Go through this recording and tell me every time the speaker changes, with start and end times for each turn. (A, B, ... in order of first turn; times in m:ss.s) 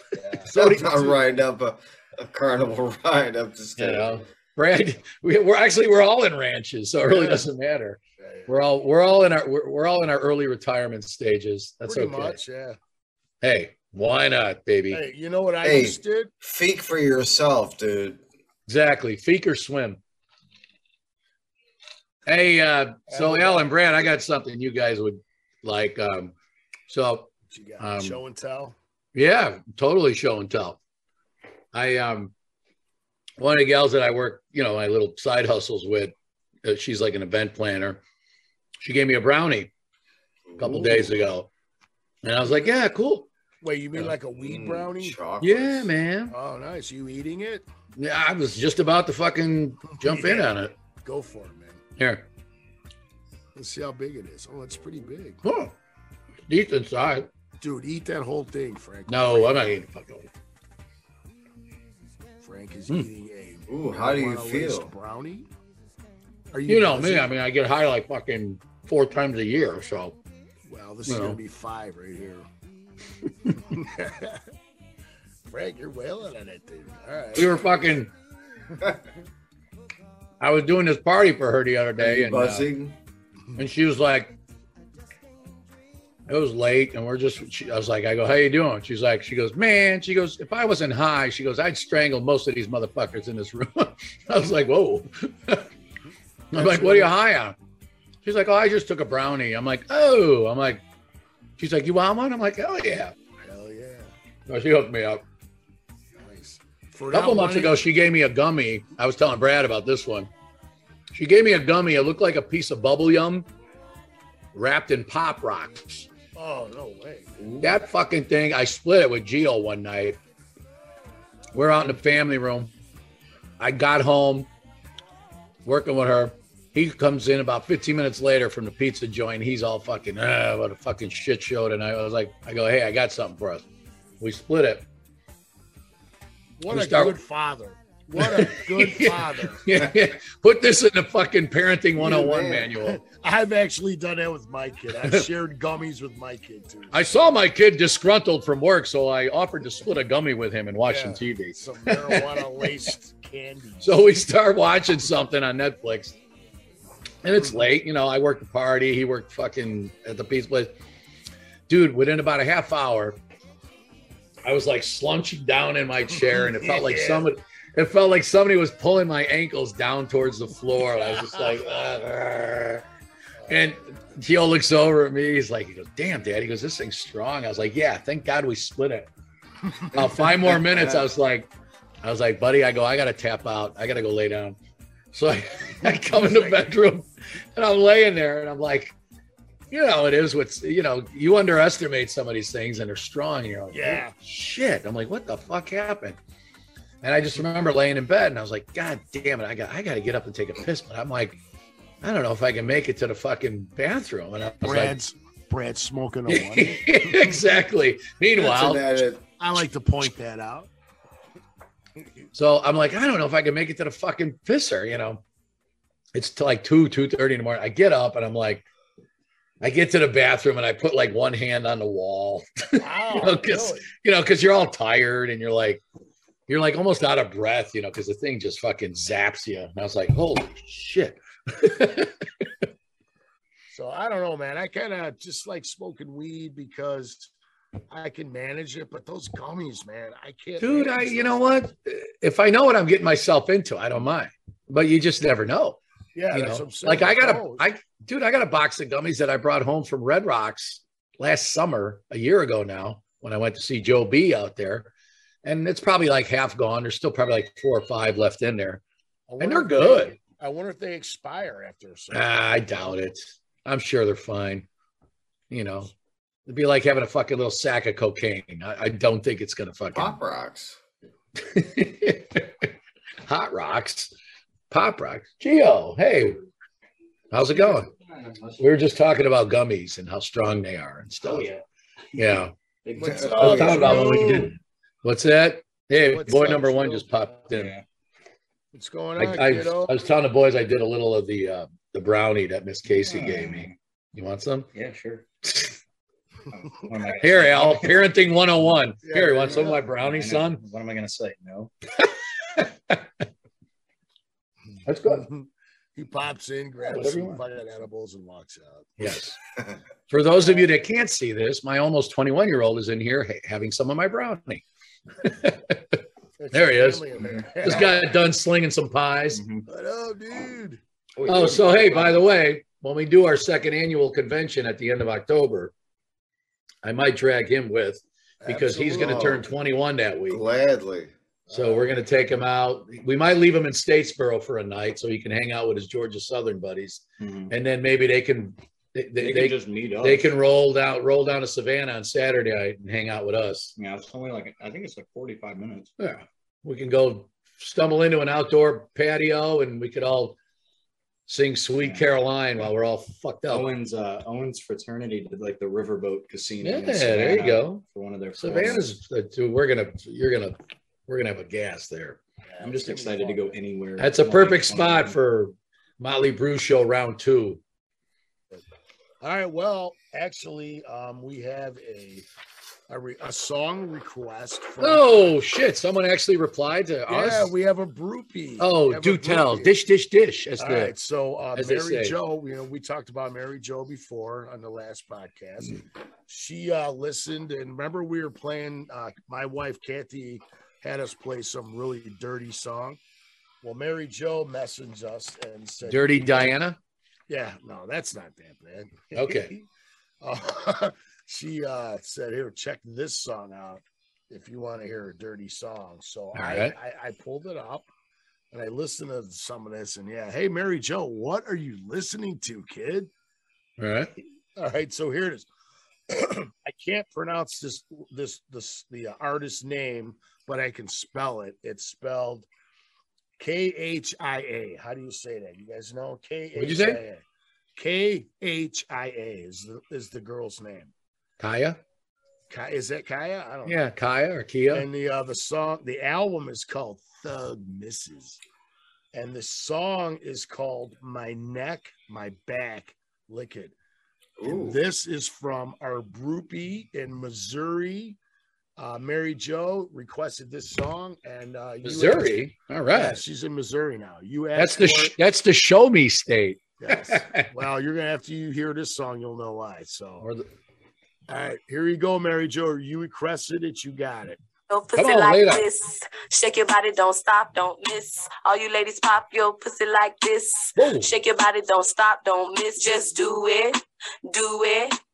0:00.1-0:00.5 A
0:00.5-0:01.2 B
0:00.5-0:04.2 C
0:03.8-0:12.4 B
0:07.0-0:07.4 A
0:08.2-0:08.5 A
0:11.8-0:12.8 A
0:13.4-0:15.0 B
0:14.9-0:16.3 A
0:15.6-0:18.2 C
0:18.7-0:20.0 B
0:22.3-0:26.3 B
0:23.1-0:23.6 A
0:26.9-0:28.2 B
0:27.5-0:28.8 A
0:29.1-0:30.8 B
0:31.7-0:32.3 B
0:33.4-0:36.1 B
0:36.6-0:38.0 B
0:38.8-0:39.7 B
0:40.5-0:41.1 C
0:40.6-0:41.5 B
0:42.2-0:43.3 B
0:43.6-0:45.2 A
0:44.4-0:45.9 C
0:45.4-0:46.3 B
0:46.3-0:47.6 A
0:48.0-0:50.7 B
0:49.9-0:51.8 A
0:52.0-0:52.2 B
0:53.6-0:55.4 A
0:55.4-0:55.7 B
0:56.5-0:57.3 B
0:57.6-0:59.7 A
0:59.1-1:00.3 B
1:02.4-1:05.5 A
1:03.7-1:04.9 C
1:06.5-1:07.3 A
1:06.7-1:10.2 B
1:10.7-1:12.5 A
1:11.1-1:11.4 B
1:13.7-1:14.4 A
1:15.5-1:17.5 A
1:17.3-1:18.1 B
1:20.4-1:22.6 B
1:22.0-1:23.0 C
1:23.6-1:24.3 B
1:26.3-1:35.7 B
1:36.5-1:37.6 B
1:36.5-1:37.1 A
1:38.2-1:40.8 B
1:41.6-1:43.1 B
1:43.4-1:44.1 A
1:44.5-1:45.2 B
1:46.2-1:47.8 A
1:47.1-1:50.3 B
1:51.1-1:53.5 B
1:54.5-1:56.1 B
1:56.3-1:57.3 A
1:57.6-2:00.2 B
2:01.5-2:02.7 B
2:03.6-2:04.5 B
2:05.6-2:13.6 B
2:14.2-2:14.8 B
2:16.6-2:19.6 A
2:16.7-2:17.2 B
2:18.2-2:23.0 B
2:22.0-2:22.7 C
2:22.8-2:27.0 A
2:26.9-2:32.7 B
2:30.9-2:34.0 A
2:33.8-2:36.2 B
2:37.2-2:40.7 B
2:41.7-2:43.2 B
2:44.4-2:52.8 B
2:46.2-2:47.3 A
2:51.2-2:51.4 A
2:53.5-2:53.7 A
2:53.5-2:59.1 B
2:59.9-3:01.5 B
3:00.0-3:01.1 C
3:02.0-3:04.6 B
3:05.1-3:08.9 B
3:05.8-3:06.6 A
3:09.7-3:16.2 B
3:13.7-3:14.1 A
3:17.0-3:21.4 B
3:22.0-3:24.9 B
3:24.6-3:27.4 A
3:26.3-3:28.9 B
3:28.4-3:29.2 C
3:29.4-3:30.7 A
3:32.3-3:35.2 B
3:36.1-3:38.6 B
3:39.6-3:45.8 B
3:42.8-3:43.9 A
3:46.5-3:52.1 B
3:53.7-3:57.3 A
3:57.9-4:01.4 A
4:00.6-4:05.8 B
4:06.1-4:07.6 A
4:06.3-4:14.9 B
4:15.4-4:18.8 B
4:19.3-4:22.9 A
4:19.4-4:20.2 B
4:22.1-4:24.7 B
4:25.5-4:25.9 B
4:26.5-4:30.2 B
4:29.9-4:30.8 C
4:31.4-4:32.7 B
4:33.2-4:34.1 B
4:34.7-4:36.4 B
4:37.3-4:37.9 B
4:37.5-4:38.6 D
4:38.6-4:41.5 B
4:41.2-4:41.6 D
4:42.2-4:42.5 B
4:42.8-4:44.1 D
4:43.0-4:44.5 A
4:43.0-4:43.9 C
4:43.3-4:47.7 B
4:46.0-4:47.0 A
4:47.5-4:47.8 D
4:48.7-4:49.9 A
4:49.2-4:54.7 B
4:52.8-4:53.8 D
4:54.7-4:55.2 D
4:55.4-4:55.7 B
4:56.5-4:58.0 D
4:57.2-5:00.6 B
4:59.0-4:59.8 A
4:59.9-5:01.7 D
5:02.6-5:03.0 B
5:04.8-5:05.3 B
5:05.1-5:08.9 A
5:06.8-5:07.4 B
5:09.0-5:09.4 B
5:10.1-5:14.6 B
5:15.2-5:16.0 B
5:16.4-5:18.0 A
5:16.5-5:17.1 B
5:17.2-5:17.8 D
5:17.6-5:19.4 B
5:19.3-5:19.6 D
5:19.7-5:20.8 A
5:21.2-5:22.2 D
5:21.2-5:25.7 B
5:26.8-5:30.4 B
5:28.4-5:29.4 A
5:29.0-5:29.4 C
5:30.3-5:31.1 C
5:31.5-5:43.7 B
5:31.5-5:31.8 A
5:37.2-5:37.5 D
5:39.2-5:40.3 D
5:43.8-5:45.9 D
5:46.0-5:50.4 B
5:51.3-5:53.7 B
5:51.8-5:52.1 D
5:53.5-5:58.9 D
5:56.6-5:57.8 B
5:58.4-6:00.6 B
6:01.1-6:02.2 B
6:02.5-6:03.6 A
6:02.6-6:05.2 D
6:04.0-6:07.6 B
6:09.2-6:12.2 A
6:12.9-6:15.2 A
6:14.8-6:17.5 B
6:17.1-6:19.7 A
6:18.6-6:20.9 B
6:20.6-6:33.0 A
6:21.6-6:22.2 B
6:33.6-6:36.5 A
6:35.8-6:36.8 B
6:37.3-6:39.6 A
6:39.1-6:39.5 B
6:40.2-6:47.9 A
6:46.3-6:46.7 B
6:48.5-6:53.1 A
6:53.8-6:54.1 B
6:54.6-6:55.5 A
6:56.1-7:02.5 A
7:03.4-7:07.2 A
7:06.6-7:07.0 B
7:07.8-7:10.9 A
7:11.4-7:11.8 B
7:12.5-7:13.8 A
7:13.6-7:14.8 B
7:14.7-7:18.4 A
7:19.1-7:23.7 A
7:24.4-7:24.8 C
7:24.4-7:28.2 A
7:28.8-7:35.1 A
7:31.8-7:33.2 B
7:34.6-7:37.5 B
7:36.8-7:40.3 A
7:41.3-7:44.4 A
7:44.7-7:55.0 E
7:45.0-7:45.6 B
7:50.8-7:51.1 B